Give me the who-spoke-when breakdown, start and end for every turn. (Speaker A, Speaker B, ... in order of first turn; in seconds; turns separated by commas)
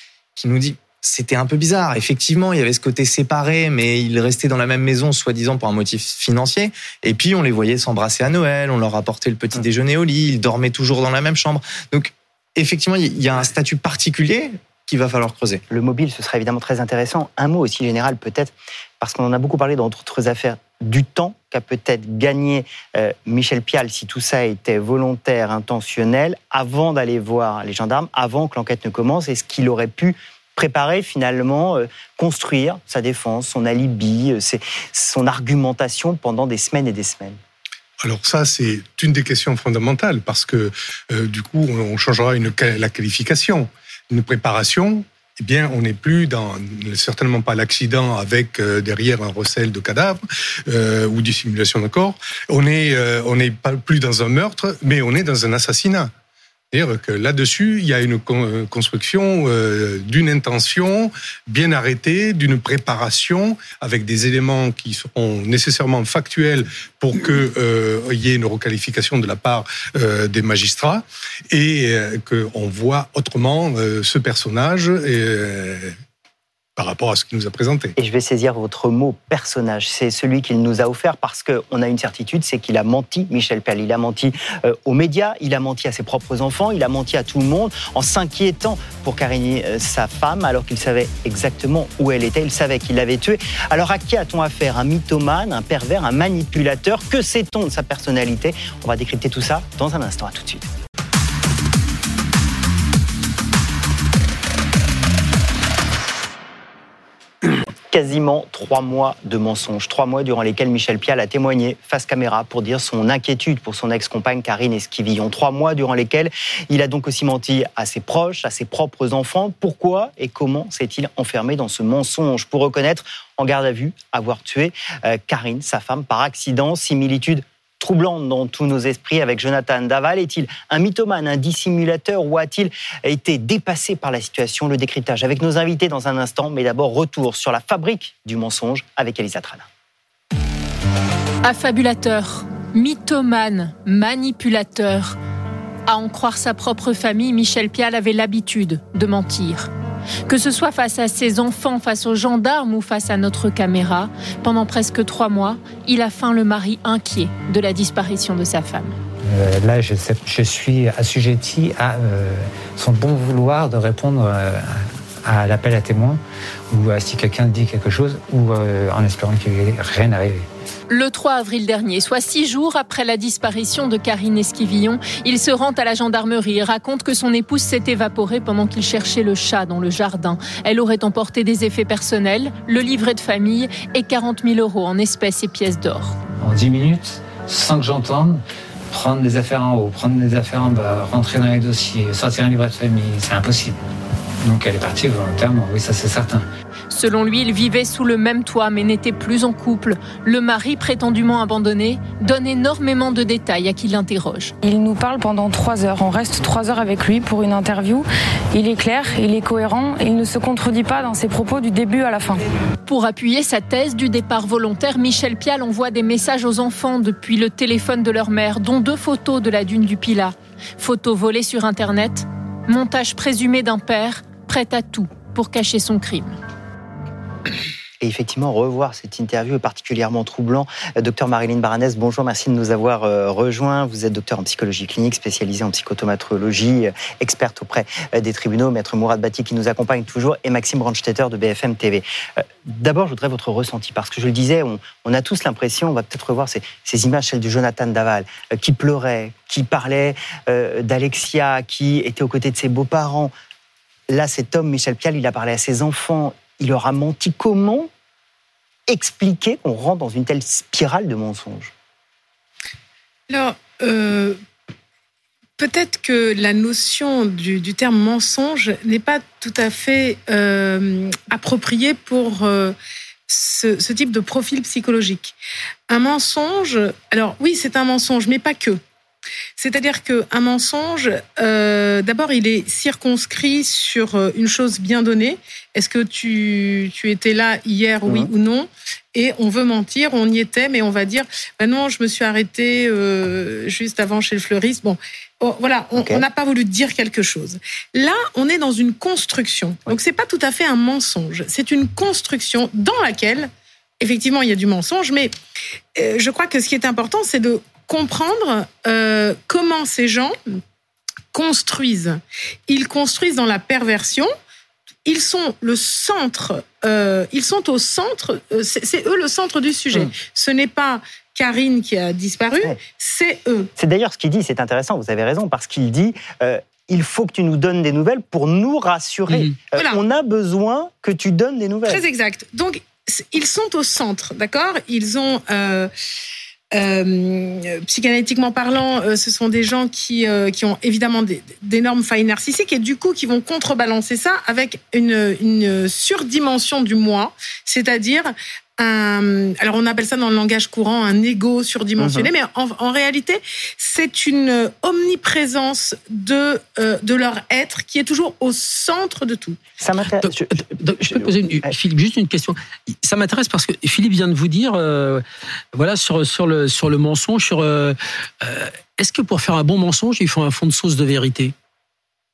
Speaker A: 0.4-15.6, Speaker B: 15.7-37.4, Speaker C: 38.0-56.1, Speaker C: 56.7-76.0, Speaker C: 76.8-78.0, Speaker B: 78.0-100.7, Speaker B: 107.9-139.7, Speaker D: 141.4-145.2, Speaker D: 145.9-149.7, Speaker D: 150.3-159.0, Speaker E: 159.3-170.5, Speaker D: 170.9-186.2, Speaker E: 186.4-193.8, Speaker E: 194.4-196.5, Speaker D: 196.9-204.5, Speaker F: 204.6-212.4, Speaker D: 212.9-226.4, Speaker B: 228.0-253.3, Speaker B: 254.1-257.9, Speaker B: 258.9-261.7, Speaker G: 263.3-264.4, Speaker G: 265.6-272.8, Speaker G: 273.3-275.4, Speaker G: 275.9-278.8, Speaker G: 279.6-305.3, Speaker B: 296.0-296.2, Speaker G: 306.0-310.6, Speaker G: 311.3-314.3, Speaker G: 315.1-323.7, Speaker B: 323.8-332.0, Speaker G: 331.9-335.9, Speaker G: 336.7-359.6, Speaker B: 352.0-352.3, Speaker B: 359.8-361.7, Speaker H: 360.1-371.5